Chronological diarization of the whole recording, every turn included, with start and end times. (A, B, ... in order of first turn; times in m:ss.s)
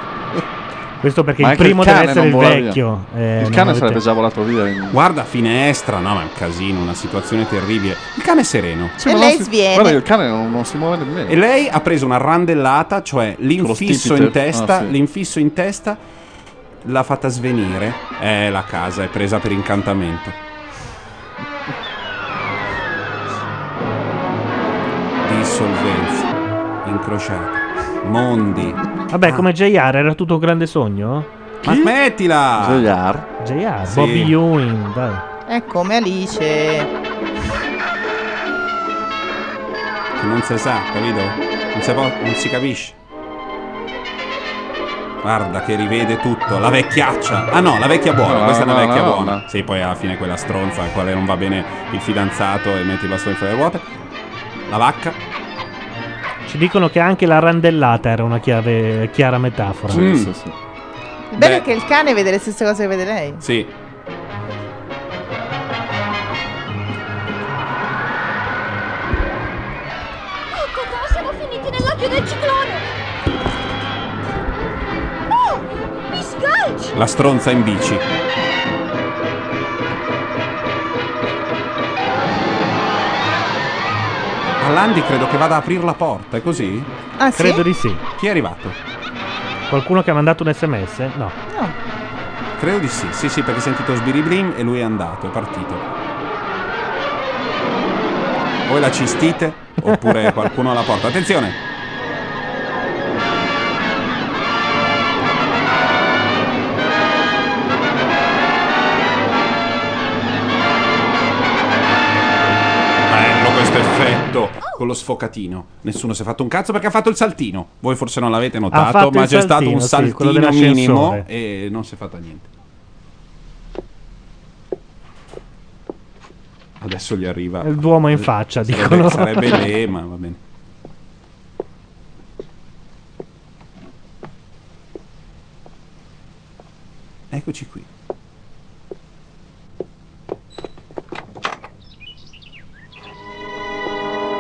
0:01.0-0:04.0 A
0:01.4-0:02.8 B
0:03.4-0:05.0 B
0:04.9-0:09.0 C
0:09.0-0:11.4 B
0:09.0-0:10.0 D
0:11.3-0:16.0 C
0:13.6-0:14.9 B
0:16.8-0:20.4 C
0:25.2-0:26.3 C
0:26.8-0:29.5 C
0:29.1-0:31.3 A
0:31.6-0:32.0 B
0:31.6-0:32.9 C
0:32.6-0:33.2 B
0:33.4-0:35.2 A
0:33.9-0:34.4 C
0:35.5-0:36.9 D
0:40.2-0:42.9 C
0:45.2-0:53.9 C
0:48.2-0:49.4 B
0:54.7-0:55.2 C
0:56.4-1:00.1 A
0:59.9-1:00.5 B
0:59.9-1:00.3 C
1:01.3-1:03.4 D
1:01.4-1:01.6 C
1:03.4-1:03.7 C
1:10.5-1:12.9 E
1:16.1-1:17.0 E
1:16.9-1:18.0 C
1:24.6-1:26.9 C
1:27.2-1:27.6 D
1:27.4-1:28.0 A
1:28.2-1:28.8 C
1:29.7-1:31.4 A
1:31.5-1:31.7 D
1:32.6-1:35.8 C
1:38.7-1:41.6 C
1:53.1-2:02.5 C
1:58.7-2:01.2 A
2:06.8-2:10.4 C
2:07.6-2:09.7 A
2:17.3-2:17.9 C